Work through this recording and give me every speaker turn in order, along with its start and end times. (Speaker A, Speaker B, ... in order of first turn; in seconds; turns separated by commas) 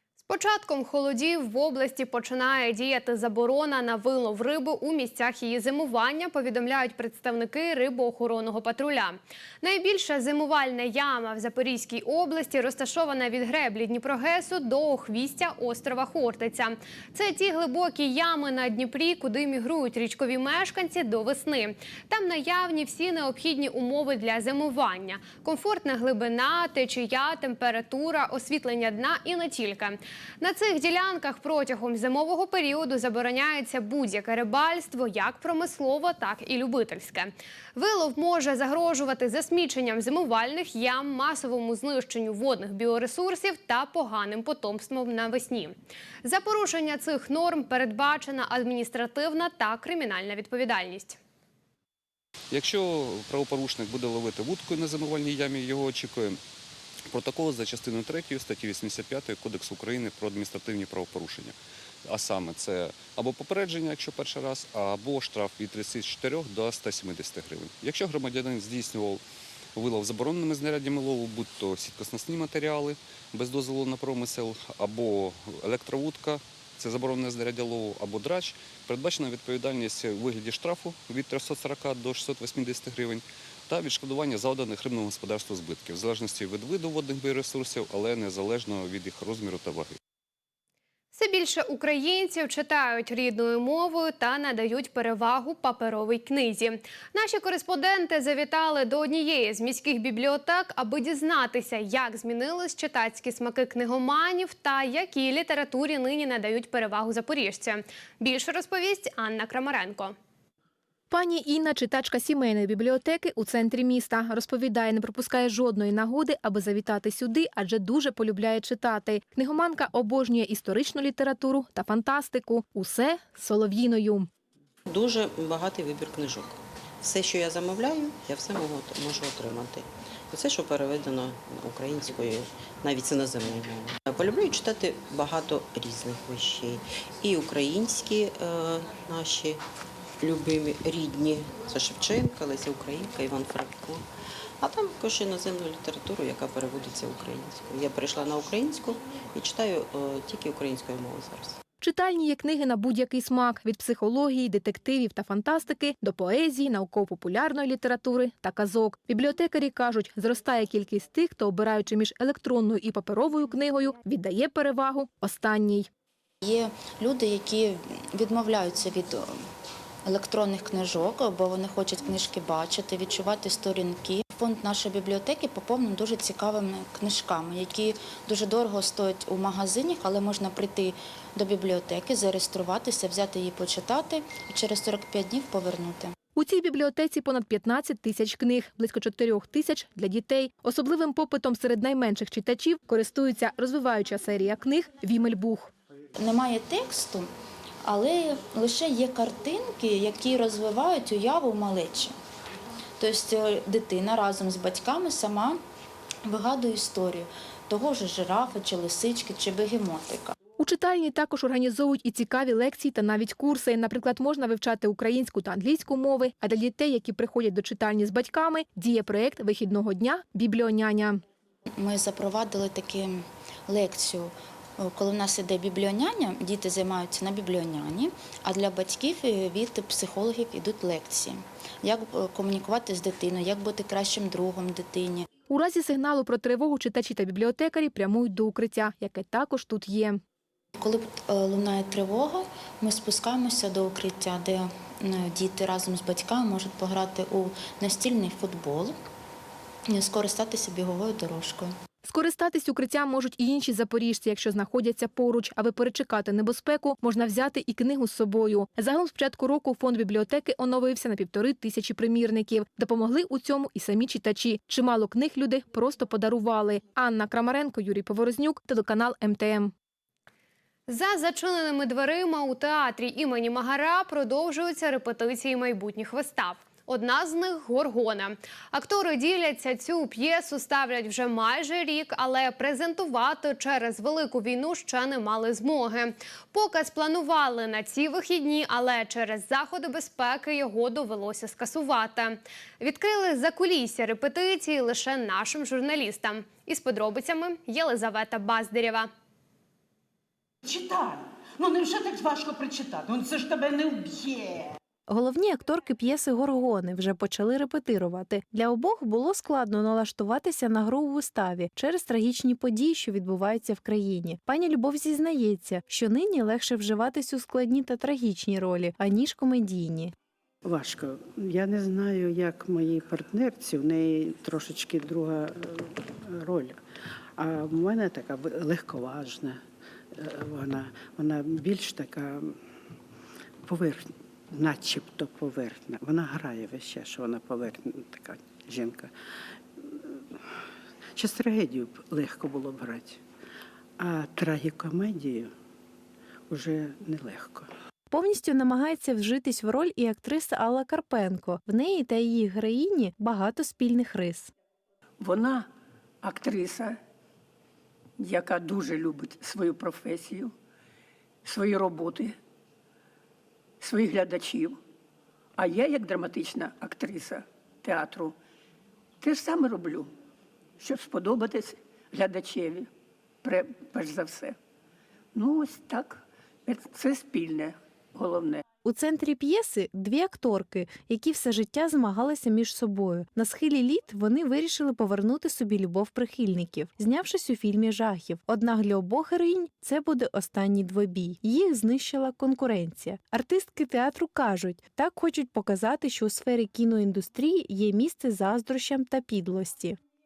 Speaker A: 0.2-51.2, Speaker B: 52.5-56.4, Speaker B: 57.1-69.2, Speaker B: 69.8-90.0, Speaker A: 91.1-110.2, Speaker C: 111.1-124.3, Speaker D: 124.9-139.6, Speaker D: 140.2-144.0, Speaker D: 144.6-151.6, Speaker C: 151.8-165.9, Speaker E: 166.4-169.3, Speaker E: 170.1-186.1, Speaker C: 186.4-195.7, Speaker E: 196.2-197.3, Speaker E: 197.8-202.2, Speaker E: 203.0-205.6, Speaker E: 206.3-210.3, Speaker C: 210.6-221.2, Speaker E: 221.8-235.3, Speaker C: 235.5-240.2, Speaker E: 240.8-248.9, Speaker E: 249.9-251.7, Speaker C: 252.0-269.7, Speaker A: 270.9-299.1, Speaker F: 300.6-304.7, Speaker G: 305.1-320.1, Speaker H: 320.6-326.8, Speaker H: 327.4-329.6, Speaker H: 330.1-332.6, Speaker H: 333.6-339.1, Speaker H: 339.8-340.4, Speaker H: 341.2-343.2, Speaker H: 344.0-345.5, Speaker H: 346.5-347.7, Speaker G: 348.1-354.5, Speaker I: 355.2-355.7, Speaker I: 356.2-357.0, Speaker I: 358.2-360.5, Speaker I: 361.4-362.4, Speaker I: 363.8-364.8, Speaker I: 365.6-368.4, Speaker I: 369.2-370.1, Speaker I: 370.8-372.9, Speaker I: 373.4-374.6, Speaker I: 375.4-378.6, Speaker G: 378.8-400.0